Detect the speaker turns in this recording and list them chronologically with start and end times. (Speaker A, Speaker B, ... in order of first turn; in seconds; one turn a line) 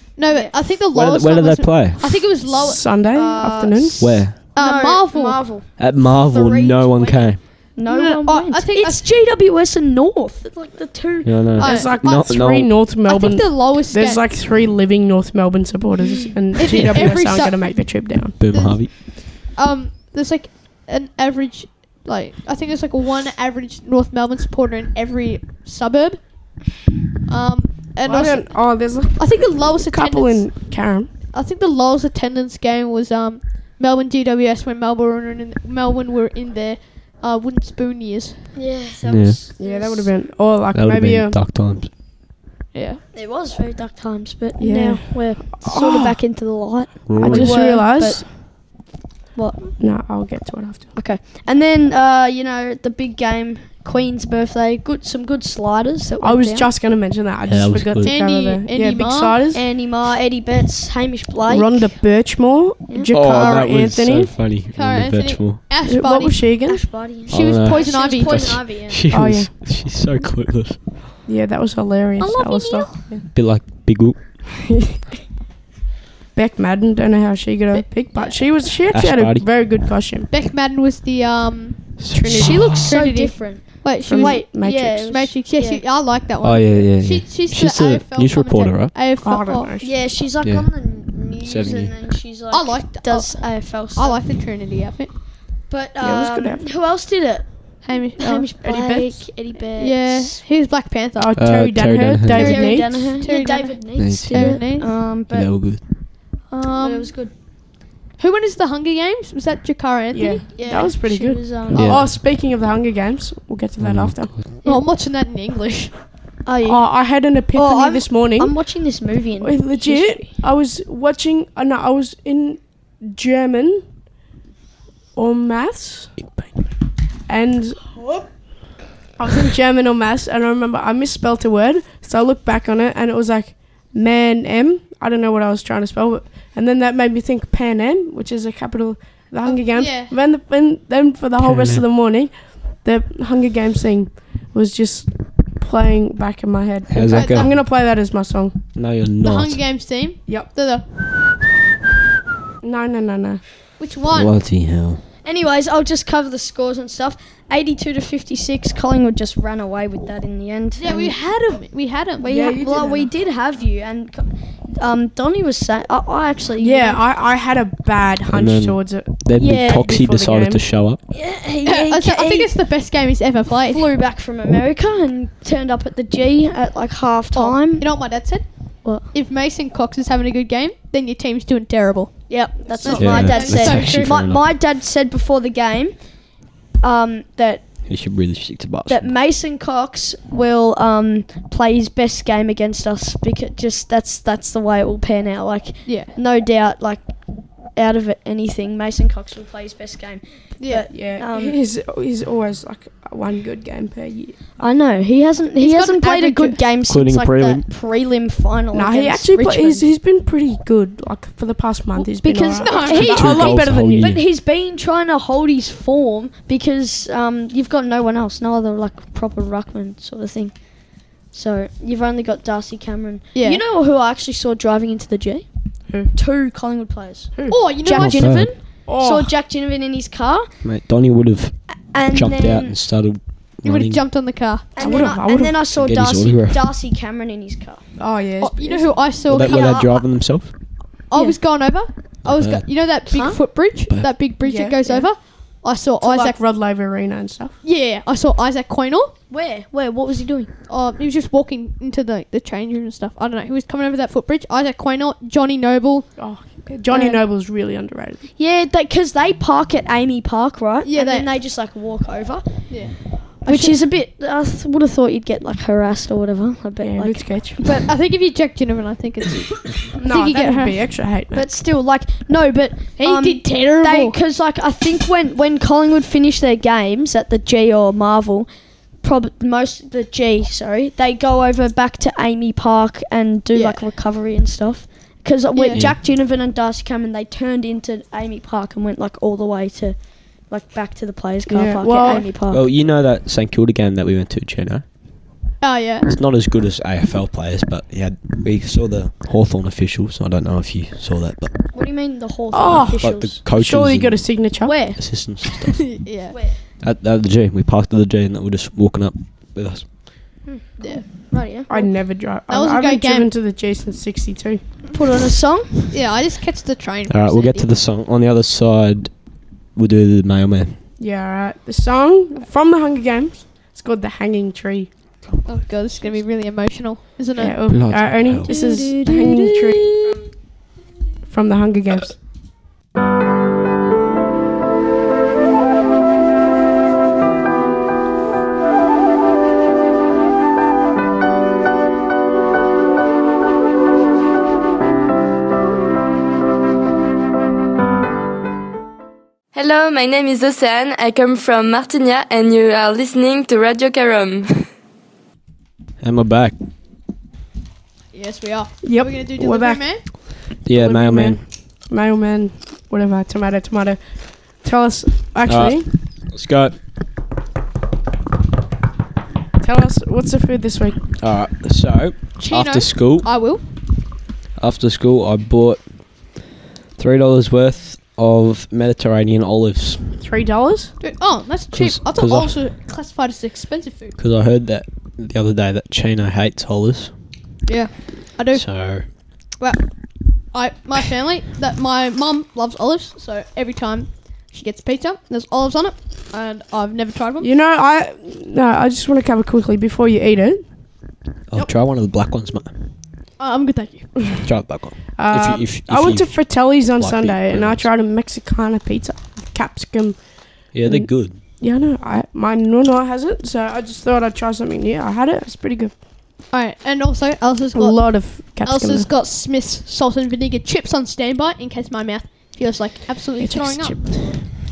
Speaker A: 0.1-3.3
Speaker B: 0.3-0.6
Speaker C: 1.4-1.8
Speaker D: 2.5-4.2
Speaker B: 3.1-11.6
Speaker C: 4.0-4.3
Speaker A: 4.5-5.4
Speaker C: 5.8-7.3
Speaker A: 7.8-9.0
Speaker C: 11.3-11.6
Speaker A: 11.6-14.2
Speaker D: 11.6-18.4
Speaker A: 16.5-26.3
Speaker C: 18.4-18.9
Speaker A: 27.3-30.5
Speaker D: 28.0-31.1
Speaker A: 31.3-38.5
Speaker B: 38.5-40.2
Speaker C: 39.1-39.4
Speaker D: 39.6-41.4
Speaker C: 40.7-41.9
Speaker A: 42.7-43.0
Speaker B: 43.1-48.8
Speaker D: 44.6-46.2
Speaker C: 47.1-47.5
Speaker D: 47.2-48.3
Speaker B: 49.3-49.7
Speaker D: 49.8-50.9
Speaker B: 51.0-56.7
Speaker D: 56.2-59.6
Speaker C: 57.5-58.0
Speaker A: 58.0-59.4
Speaker B: 59.5-61.9
Speaker D: 61.5-64.3
Speaker C: 63.1-65.6
Speaker A: 64.7-66.4
Speaker D: 65.8-66.8
Speaker B: 66.7-69.0
Speaker A: 67.3-68.6
Speaker C: 67.3-70.8
Speaker D: 69.1-69.5
Speaker D: 71.2-73.2
Speaker A: 72.2-73.0
Speaker C: 73.3-74.1
Speaker D: 74.7-75.0
Speaker D: 76.3-80.3
Speaker B: 78.1-78.4
Speaker C: 79.0-79.4
Speaker A: 80.3-82.0
Speaker C: 82.0-82.7
Speaker D: 82.1-82.7
Speaker B: 82.3-85.8
Speaker A: 82.8-89.7
Speaker D: 84.0-85.1
Speaker C: 86.4-88.9
Speaker D: 89.2-90.0
Speaker B: 89.8-94.2
Speaker C: 91.4-91.9
Speaker A: 92.5-95.1
Speaker B: 95.7-100.4
Speaker D: 96.0-96.7
Speaker A: 97.8-98.5
Speaker D: 98.6-99.3
Speaker A: 99.8-101.3
Speaker D: 101.2-103.1
Speaker C: 101.4-102.5
Speaker A: 102.3-104.9
Speaker B: 102.4-105.5
Speaker C: 104.0-104.6
Speaker C: 105.3-105.8
Speaker A: 106.5-107.1
Speaker B: 106.8-107.3
Speaker A: 108.2-110.4
Speaker D: 110.1-114.4
Speaker B: 110.5-112.1
Speaker C: 111.7-112.0
Speaker C: 113.8-114.4
Speaker A: 114.6-115.9
Speaker B: 116.4-117.0
Speaker D: 116.7-118.5
Speaker B: 117.5-120.4
Speaker D: 119.4-123.8
Speaker D: 125.1-126.1
Speaker D: 127.3-127.9
Speaker D: 129.2-148.6
Speaker A: 139.4-140.1
Speaker C: 141.4-141.8
Speaker C: 146.9-147.4
Speaker A: 147.1-147.5
Speaker C: 148.8-149.5
Speaker A: 149.2-150.8
Speaker D: 152.6-153.4
Speaker A: 153.8-154.3
Speaker C: 154.2-155.0
Speaker B: 155.2-161.2
Speaker A: 160.8-162.3
Speaker B: 162.2-167.0
Speaker D: 162.2-163.1
Speaker D: 166.6-170.6
Speaker C: 168.3-168.7
Speaker C: 169.2-171.0
Speaker B: 169.4-169.9
Speaker B: 171.1-172.5
Speaker A: 171.6-173.9
Speaker B: 173.5-178.1
Speaker A: 177.3-178.4
Speaker A: 179.1-184.2
Speaker B: 182.3-186.2
Speaker C: 183.0-184.4
Speaker B: 186.8-187.7
Speaker C: 187.9-189.0
Speaker B: 188.9-197.1
Speaker A: 195.8-196.1
Speaker B: 197.7-201.6
Speaker A: 200.6-200.9
Speaker D: 200.9-204.5
Speaker B: 204.6-209.9
Speaker A: 205.6-206.6
Speaker C: 206.9-207.6
Speaker D: 208.7-214.1
Speaker B: 212.0-225.5
Speaker A: 212.6-213.2
Speaker C: 213.1-214.2
Speaker A: 223.3-223.6
Speaker B: 226.1-230.5
Speaker A: 227.5-228.5
Speaker C: 227.9-228.5
Speaker D: 228.8-229.3
Speaker C: 230.6-231.5
Speaker B: 231.7-232.7
Speaker C: 232.1-233.9
Speaker A: 233.6-234.7
Speaker B: 234.7-237.8
Speaker D: 234.8-235.6
Speaker C: 235.8-236.6
Speaker D: 238.0-239.0
Speaker A: 238.4-239.9
Speaker C: 239.3-240.4
Speaker B: 239.4-240.1
Speaker A: 241.1-246.3
Speaker B: 243.1-243.4
Speaker D: 244.4-245.0
Speaker D: 246.0-247.5
Speaker A: 247.6-249.1
Speaker B: 249.3-250.5
Speaker A: 250.7-256.1
Speaker D: 256.2-258.2
Speaker B: 256.9-257.2
Speaker B: 258.4-262.7
Speaker A: 260.8-261.3
Speaker A: 262.7-262.9
Speaker B: 263.4-267.9
Speaker A: 263.4-263.8
Speaker D: 266.8-267.6
Speaker A: 267.8-270.8
Speaker D: 269.9-271.5
Speaker B: 271.3-278.5
Speaker A: 273.0-274.2
Speaker B: 279.0-292.6
Speaker A: 283.5-283.8
Speaker A: 285.5-285.9
Speaker D: 291.5-292.3
Speaker C: 292.5-294.8
Speaker A: 295.6-296.1
Speaker C: 296.1-301.5
Speaker B: 301.7-303.4
Speaker D: 302.5-304.8
Speaker C: 303.0-304.1
Speaker B: 304.6-305.0
Speaker C: 305.0-305.7
Speaker A: 305.8-306.4
Speaker B: 306.3-306.6
Speaker C: 306.8-309.8
Speaker B: 310.4-311.9
Speaker A: 310.8-311.0
Speaker D: 311.7-314.6
Speaker A: 312.5-313.3
Speaker B: 314.9-315.9
Speaker A: 315.9-317.7
Speaker C: 317.1-319.1
Speaker C: 319.8-320.7
Speaker D: 321.0-324.9
Speaker A: 325.4-327.9
Speaker D: 327.4-330.0
Speaker C: 327.7-328.5
Speaker B: 328.5-330.2
Speaker D: 331.3-332.2
Speaker E: 349.5-354.7
Speaker C: 356.0-356.5
Speaker A: 358.1-360.0
Speaker D: 358.8-364.0
Speaker C: 360.6-361.4
Speaker D: 364.6-365.9
Speaker C: 365.5-365.8
Speaker C: 366.3-366.7
Speaker D: 369.6-371.0
Speaker C: 371.2-373.2
Speaker A: 372.4-373.6
Speaker C: 374.6-375.8
Speaker C: 377.0-380.0
Speaker D: 380.2-380.9
Speaker A: 381.0-384.2
Speaker C: 381.8-382.5
Speaker C: 384.2-387.1
Speaker A: 387.6-388.6
Speaker C: 388.6-389.0
Speaker A: 390.5-397.5
Speaker D: 397.4-400.6
Speaker C: 401.5-402.7
Speaker A: 403.4-404.1
Speaker C: 404.4-406.3
Speaker D: 405.1-415.9
Speaker C: 407.0-407.8
Speaker C: 410.7-411.4
Speaker A: 416.5-424.0
Speaker D: 417.7-419.1
Speaker D: 423.4-424.4